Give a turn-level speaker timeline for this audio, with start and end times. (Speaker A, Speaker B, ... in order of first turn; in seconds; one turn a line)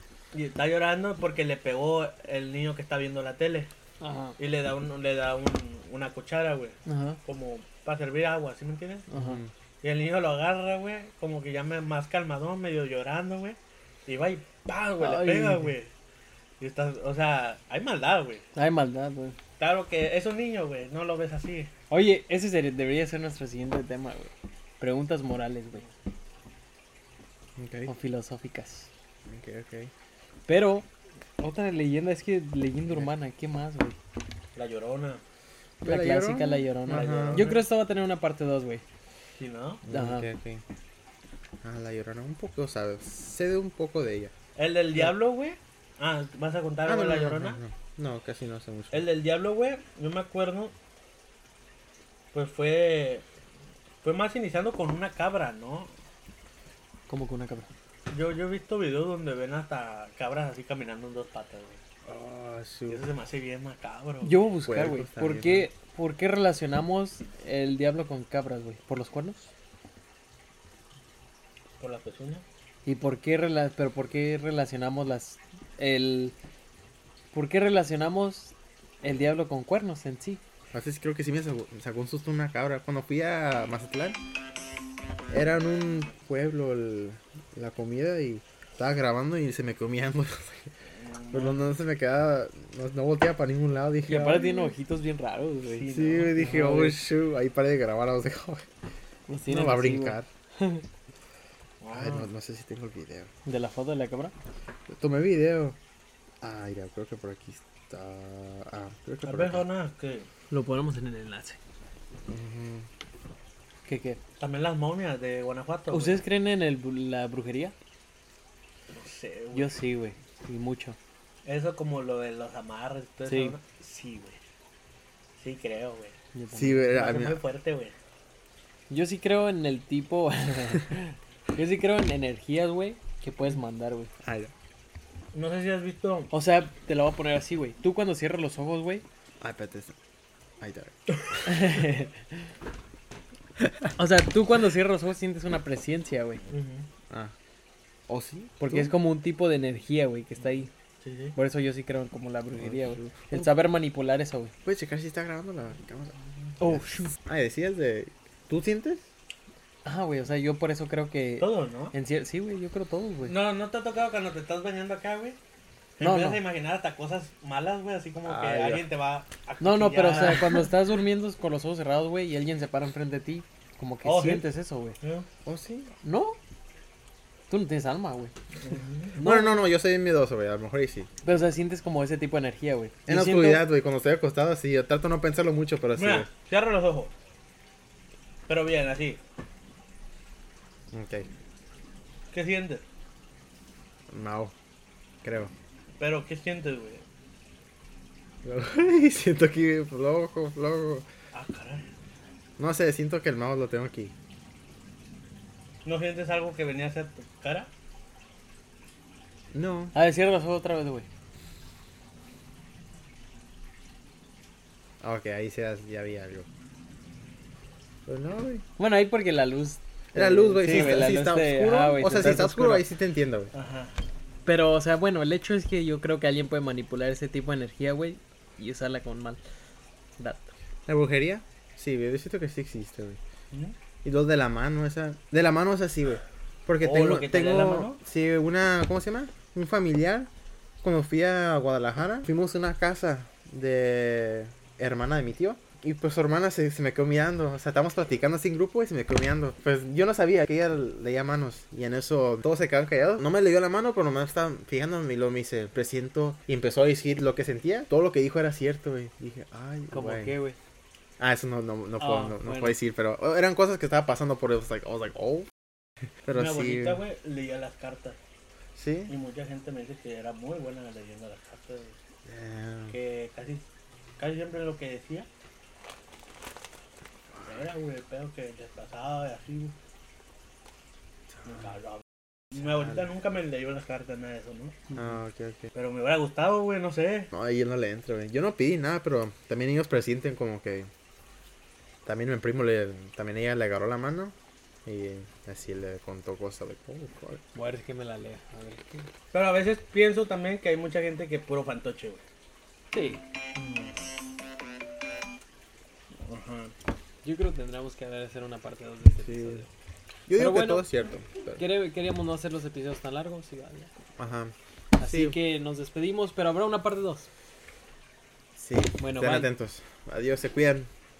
Speaker A: 0.3-3.7
Speaker B: 4.0-4.3
Speaker A: 4.4-9.1
Speaker B: 6.8-7.2
Speaker B: 9.1-9.4
Speaker C: 9.1-9.5
Speaker A: 9.8-15.9
Speaker B: 15.0-15.7
Speaker A: 16.6-18.4
Speaker B: 18.5-19.4
Speaker A: 19.6-21.7
Speaker B: 21.9-25.8
Speaker C: 27.6-27.9
Speaker B: 27.9-28.9
Speaker C: 29.2-29.9
Speaker B: 30.5-30.9
Speaker B: 31.4-34.0
Speaker A: 34.5-35.2
Speaker C: 35.8-37.5
Speaker B: 35.8-38.8
Speaker A: 36.9-37.6
Speaker A: 39.4-39.8
Speaker C: 39.8-40.6
Speaker B: 39.9-40.2
Speaker C: 41.6-44.3
Speaker A: 44.5-47.6
Speaker C: 46.8-49.0
Speaker A: 48.9-50.7
Speaker A: 52.3-53.2
Speaker A: 54.0-55.9
Speaker B: 57.1-57.7
Speaker A: 58.1-61.8
Speaker C: 62.0-63.0
Speaker A: 62.9-64.4
Speaker B: 64.2-69.5
Speaker C: 64.6-65.7
Speaker A: 71.8-72.4
Speaker B: 72.8-76.3
Speaker B: 77.3-80.4
Speaker C: 80.7-84.2
Speaker C: 85.3-90.7
Speaker A: 91.0-91.6
Speaker C: 91.3-94.7
Speaker B: 94.1-97.0
Speaker A: 95.7-96.5
Speaker C: 95.9-98.7
Speaker B: 99.3-100.8
Speaker C: 99.5-100.3
Speaker A: 101.8-102.3
Speaker C: 101.9-103.3
Speaker B: 103.5-104.3
Speaker C: 104.9-105.8
Speaker C: 106.4-109.7
Speaker A: 109.2-110.3
Speaker B: 110.5-111.6
Speaker C: 112.3-112.9
Speaker B: 113.8-114.2
Speaker A: 114.4-116.2
Speaker B: 115.9-117.7
Speaker A: 118.9-119.8
Speaker B: 119.5-121.0
Speaker A: 121.4-124.4
Speaker B: 123.2-123.6
Speaker A: 125.4-126.2
Speaker B: 126.3-127.0
Speaker C: 126.5-127.4
Speaker A: 126.9-127.9
Speaker B: 128.9-134.1
Speaker C: 134.2-134.5
Speaker A: 135.3-136.3
Speaker B: 136.3-139.0
Speaker C: 139.4-139.9
Speaker C: 140.6-141.5
Speaker B: 141.4-142.4
Speaker B: 144.0-146.4
Speaker A: 146.5-146.9
Speaker C: 148.1-148.9
Speaker B: 148.6-150.7
Speaker A: 151.0-151.3
Speaker B: 151.3-154.5
Speaker C: 152.6-153.5
Speaker C: 154.6-159.0
Speaker B: 156.6-157.1
Speaker B: 159.8-163.3
Speaker A: 161.4-161.9
Speaker A: 163.2-165.4
Speaker A: 166.0-170.7
Speaker B: 166.0-166.4
Speaker C: 168.2-168.8
Speaker B: 169.6-175.0
Speaker A: 174.0-174.5
Speaker A: 175.0-175.2
Speaker C: 175.4-175.9
Speaker B: 176.0-176.4
Speaker B: 177.5-178.3
Speaker A: 178.6-179.1
Speaker B: 179.1-179.6
Speaker C: 179.2-181.1
Speaker B: 181.2-183.7
Speaker C: 183.1-186.3
Speaker A: 185.9-187.1
Speaker A: 188.5-189.2
Speaker C: 190.9-191.3
Speaker A: 192.3-192.8
Speaker C: 194.1-194.5
Speaker C: 195.2-195.5
Speaker A: 196.0-197.0
Speaker C: 198.4-201.1
Speaker A: 201.3-201.9
Speaker C: 202.6-204.1
Speaker A: 205.8-207.7
Speaker C: 209.5-209.9
Speaker B: 209.9-211.1
Speaker C: 215.0-216.4
Speaker C: 218.1-218.6
Speaker B: 218.8-222.9
Speaker C: 220.1-223.5
Speaker A: 223.5-224.0
Speaker B: 224.4-229.4
Speaker B: 230.2-230.5
Speaker C: 230.9-233.2
Speaker C: 234.0-240.3
Speaker A: 236.8-238.0
Speaker C: 240.8-260.3
Speaker B: 259.9-260.6
Speaker C: 261.2-265.5
Speaker B: 262.0-262.8
Speaker C: 266.2-267.0
Speaker A: 266.3-268.2
Speaker C: 268.7-269.1
Speaker A: 269.1-271.9
Speaker C: 272.2-273.0
Speaker A: 272.9-273.6
Speaker A: 274.2-275.3
Speaker A: 277.4-279.7
Speaker A: 281.5-284.9
Speaker C: 284.9-285.7
Speaker A: 285.7-287.3
Speaker C: 287.3-290.9
Speaker C: 292.1-294.3
Speaker C: 294.9-297.4
Speaker B: 297.5-299.1
Speaker A: 299.3-302.2
Speaker B: 302.9-303.2
Speaker A: 303.5-304.0
Speaker A: 306.2-306.7
Speaker B: 307.2-309.7
Speaker A: 309.2-309.6
Speaker C: 310.3-311.6
Speaker B: 310.4-310.9
Speaker B: 311.6-313.9
Speaker C: 314.2-315.4
Speaker B: 315.0-317.3
Speaker C: 318.6-320.9
Speaker B: 319.0-319.5